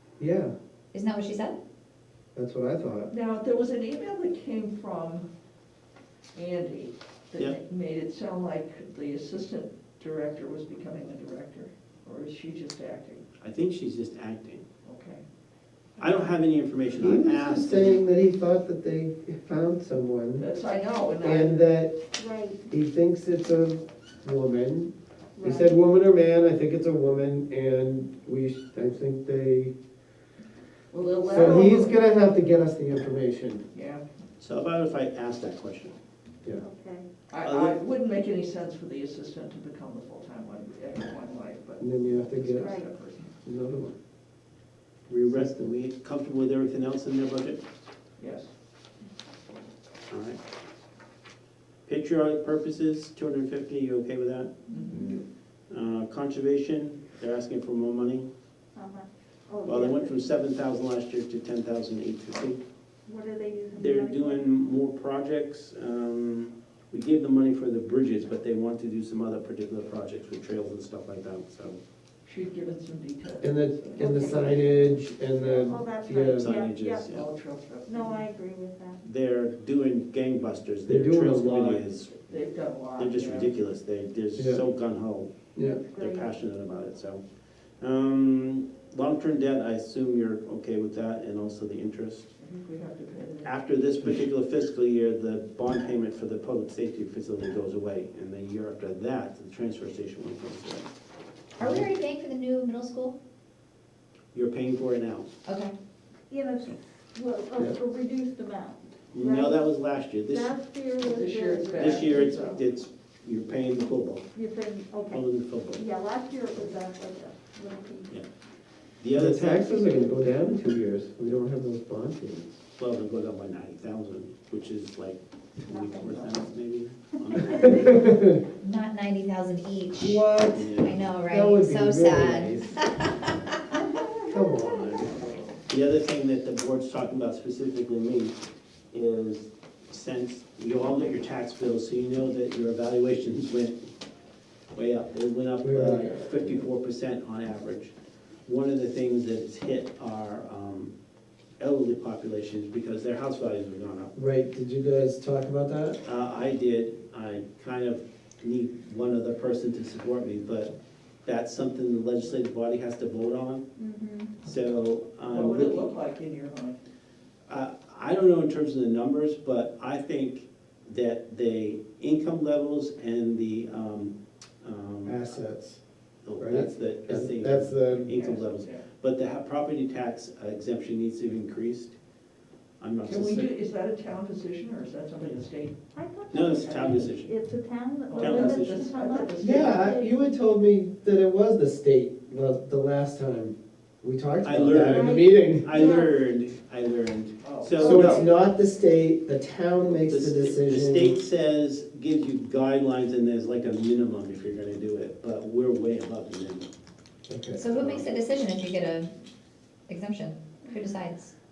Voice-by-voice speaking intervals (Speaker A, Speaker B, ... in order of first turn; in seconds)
Speaker A: 0.2-0.5, 2.3-3.1, 16.9-20.5, 21.2-22.0, 22.7-29.7, 31.2-33.6, 41.8-42.8, 43.4-44.0, 45.1-45.7, 73.4-76.5, 80.8-81.8, 84.3-84.6, 85.5-85.8, 119.1-122.6, 127.6-128.4, 130.0-130.7, 131.3-132.8, 134.3-135.2, 145.6-146.4, 154.1-156.0, 175.0-175.8, 176.4-178.1, 189.4-195.8, 197.8-201.2, 207.3-207.7
Speaker B: 0.9-1.6, 101.6-103.2, 105.5-105.7, 128.6-130.2, 130.7-133.3, 207.6-209.1, 209.9-211.3
Speaker C: 3.1-5.3, 6.3-13.2, 14.8-15.2, 20.4-21.6, 30.9-32.0, 33.7-34.0, 37.3-43.3, 48.2-48.5, 54.7-55.1, 72.2-75.0, 77.1-78.2, 82.1-83.6, 92.4-94.1, 111.0-112.6, 165.2-166.8, 178.1-178.8, 183.0-185.8, 188.1-189.9, 197.4-198.2
Speaker D: 13.4-14.7, 16.0-18.0, 34.4-35.9, 37.4-37.8, 45.2-47.6, 50.1-50.4, 51.9-54.5, 55.7-58.3, 59.6-62.6, 63.8-71.8, 76.3-77.3, 79.0-82.2, 83.0-87.2, 87.8-92.3, 93.4-100.9, 104.3-105.3, 109.1-110.5, 111.8-114.2, 115.1-115.8, 119.0-120.2, 122.8-128.0, 130.5-131.0, 135.7-138.3, 138.9-143.9, 144.7-147.9, 148.4-150.9, 151.6-154.1, 156.0-160.7, 161.2-163.6, 164.4-165.9, 167.5-175.4, 176.2-181.9, 182.8-183.5, 186.3-187.3, 188.2-188.9, 194.4-198.3, 199.9-206.7, 207.7-208.1
Speaker E: 22.1-22.6, 25.4-25.7, 36.6-37.1, 42.6-42.9, 54.7-55.1, 58.7-60.2, 63.0-64.5, 74.0-74.6, 75.4-77.0, 77.8-79.0, 85.6-86.3, 106.3-109.7, 110.3-112.5, 114.3-118.1, 125.7-126.4, 127.3-128.0, 163.8-164.4, 185.9-190.1, 194.8-196.1, 197.8-198.2